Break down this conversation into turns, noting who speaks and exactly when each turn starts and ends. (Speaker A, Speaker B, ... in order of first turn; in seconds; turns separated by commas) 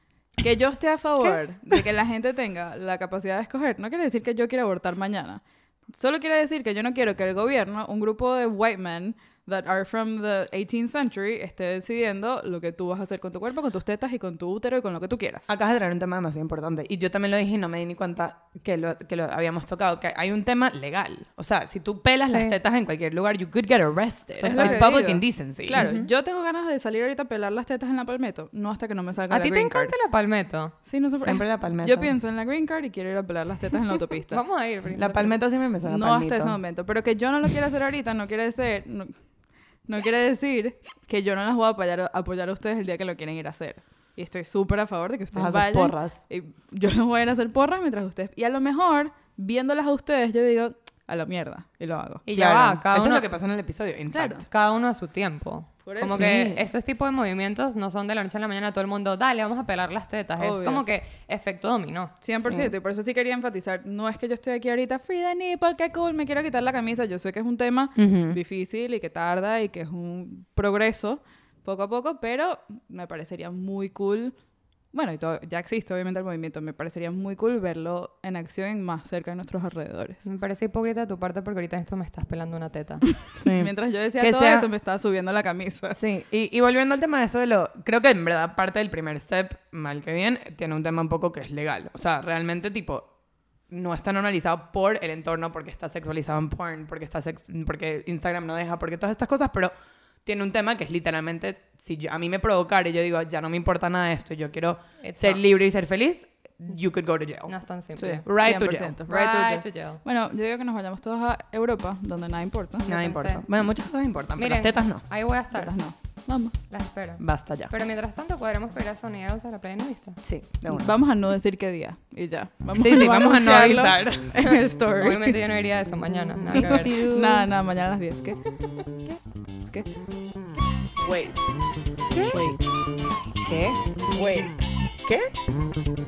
Speaker A: 0.4-15.5, Speaker B: 15.5-26.0, Speaker C: 22.3-22.5, Speaker A: 24.4-29.9, Speaker C: 24.4-24.8, Speaker C: 25.8-26.1, Speaker C: 29.3-30.8, Speaker A: 30.9-34.4, Speaker B: 31.2-32.1, Speaker C: 34.3-35.4, Speaker B: 35.0-36.6, Speaker A: 35.9-39.2, Speaker A: 39.9-52.2, Speaker B: 45.3-46.2, Speaker C: 52.3-53.3, Speaker B: 52.3-54.5, Speaker C: 54.4-62.1, Speaker A: 55.9-56.5, Speaker B: 56.1-56.6, Speaker A: 60.4-60.8, Speaker A: 62.2-74.3, Speaker B: 62.4-62.7, Speaker B: 68.0-68.4, Speaker A: 74.9-80.2, Speaker C: 80.2-83.1, Speaker A: 83.3-86.0, Speaker B: 83.4-84.7, Speaker B: 85.9-93.1, Speaker B: 93.7-99.7, Speaker B: 100.2-107.5, Speaker C: 105.0-105.4, Speaker C: 107.5-108.3, Speaker A: 108.0-112.9, Speaker B: 108.2-109.0, Speaker C: 109.1-110.0, Speaker C: 112.9-113.4, Speaker B: 112.9-115.0, Speaker C: 114.4-115.7, Speaker A: 115.5-116.6, Speaker C: 116.7-120.2, Speaker B: 117.2-117.7, Speaker B: 120.2-121.0, Speaker A: 120.7-125.4, Speaker B: 122.8-124.6, Speaker C: 125.0-127.0, Speaker A: 126.5-128.4, Speaker B: 126.6-127.5, Speaker A: 129.6-129.9, Speaker B: 131.0-131.4, Speaker A: 132.3-132.6, Speaker B: 133.5-134.5